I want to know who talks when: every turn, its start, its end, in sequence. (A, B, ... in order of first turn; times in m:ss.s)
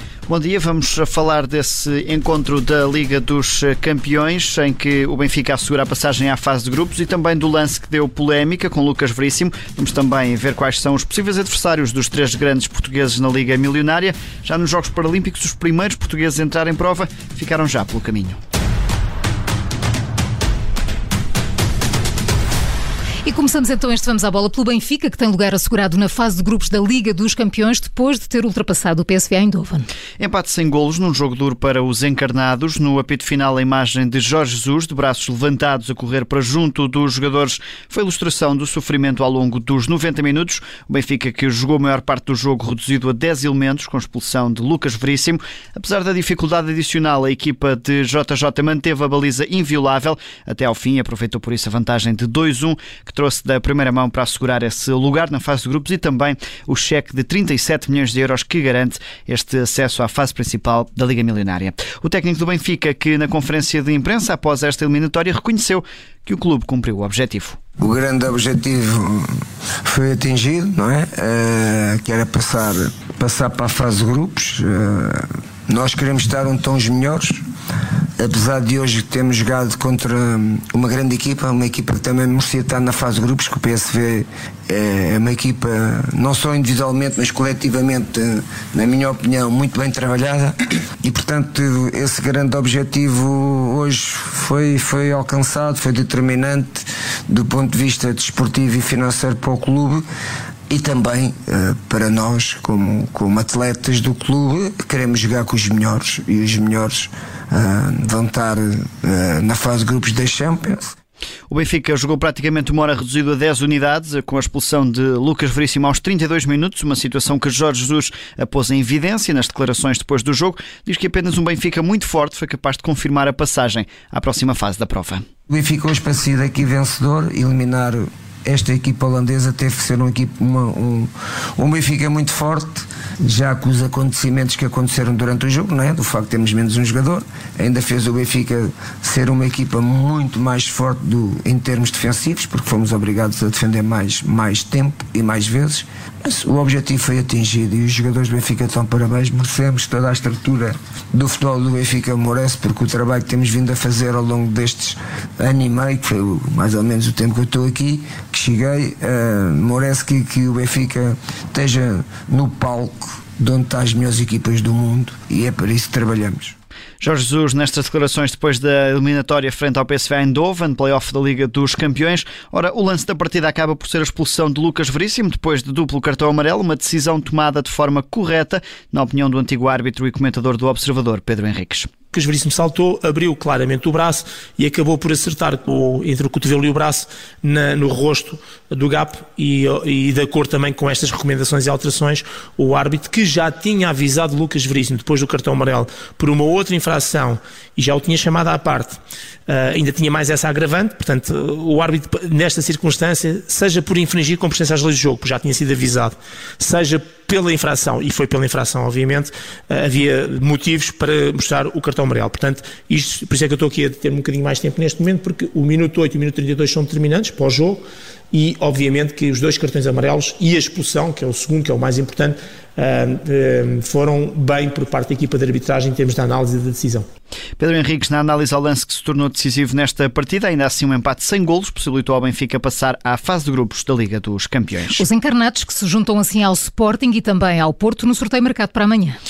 0:00.3-0:18.4 A
0:23.2-0:29.9 B
0:30.2-1:07.6 A
1:07.8-1:17.4 C
1:18.2-1:40.0 C
1:40.7-1:50.9 C
1:51.5-2:05.2 A
2:05.5-2:46.6 C
2:47.0-3:01.9 A
3:02.1-3:47.1 D
3:47.6-3:55.0 A
3:55.0-3:59.2 B